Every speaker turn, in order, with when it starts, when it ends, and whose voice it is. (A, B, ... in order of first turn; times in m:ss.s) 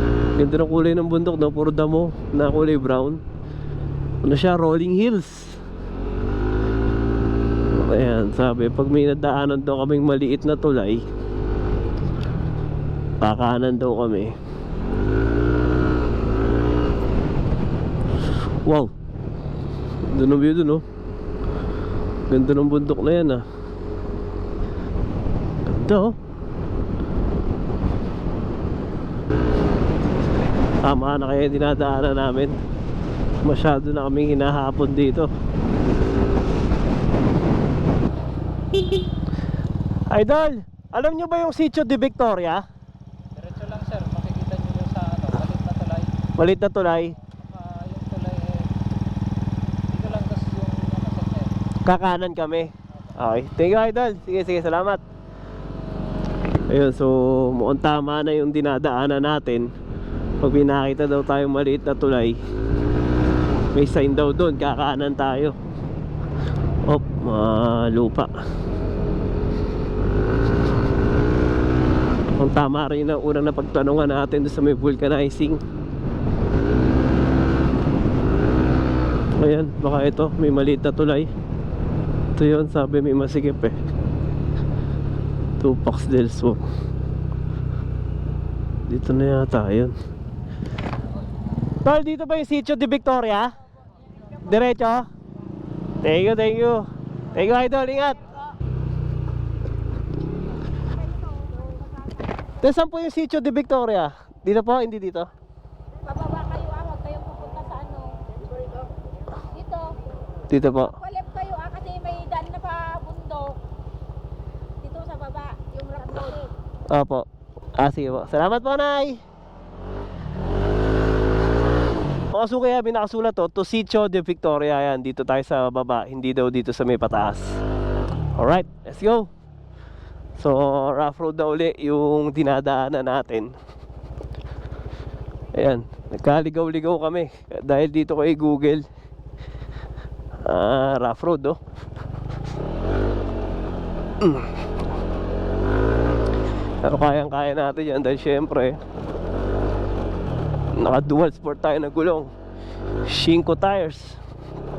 0:00.4-0:03.2 A
0:04.2-0:05.6 A
0:07.8-0:11.0 A
0:13.2-0:14.3 A
0:18.6-0:18.9 A
0:20.1-0:20.8 A
0:22.3-0:23.4 A
0:25.6-0:26.1 A
0:30.8-0:32.6 A
0:33.4-0:35.3 A
0:38.7-0:39.1 A
0:40.1-0:42.6 A
0:43.4-0:46.1 B
0:46.4-0:47.2 A
0:47.3-0:48.7 B
0:49.9-0:51.5 B
0:51.9-0:55.0 A
0:56.7-0:59.7 A
1:00.4-1:02.4 A
1:03.7-1:05.6 A
1:06.9-1:08.3 A
1:12.4-1:15.6 A
1:19.4-1:21.3 A
1:22.4-1:23.8 A
1:25.6-1:26.6 A
1:28.9-1:29.9 A
1:31.8-1:33.5 A
1:34.4-1:35.1 A
1:36.0-1:38.2 A
1:42.6-1:45.3 A
1:46.1-1:48.8 C
1:49.4-1:49.9 C
1:50.5-1:51.0 A
1:50.8-1:53.6 C
1:54.8-1:56.5 C
1:56.9-1:57.2 A
1:57.8-1:59.2 A
2:02.3-2:07.6 A
2:08.4-2:09.3 A
2:10.4-2:13.5 A
2:15.6-2:18.8 A
2:20.5-2:21.6 A
2:24.2-2:24.6 A
2:26.8-2:28.8 A
2:30.8-2:32.3 A
2:33.1-2:34.2 A